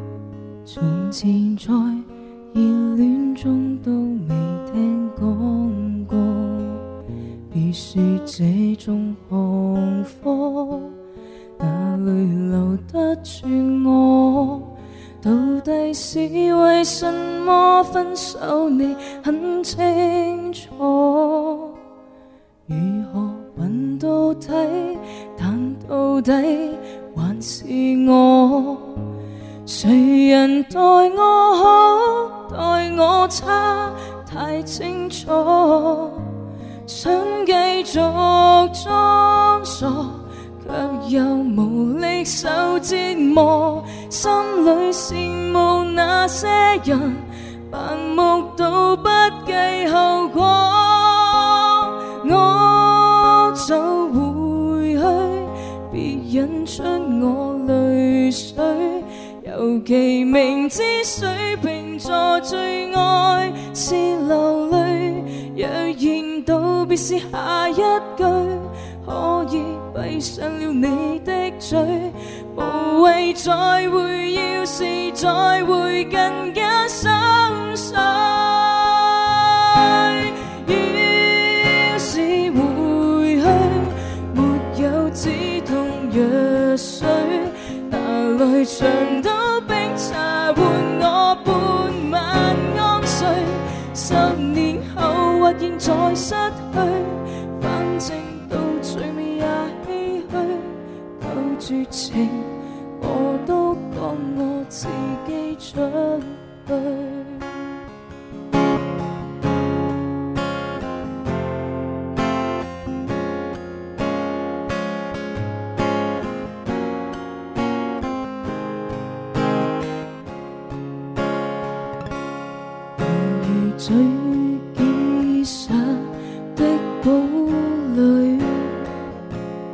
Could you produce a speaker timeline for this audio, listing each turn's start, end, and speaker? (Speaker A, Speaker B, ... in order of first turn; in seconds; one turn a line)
Speaker A: 0.7-6.8
Speaker A: 7.5-11.0
Speaker A: 11.6-21.8
Speaker A: 22.7-29.1
Speaker A: 29.6-36.3
Speaker A: 36.9-107.7
Speaker A: 123.0-128.9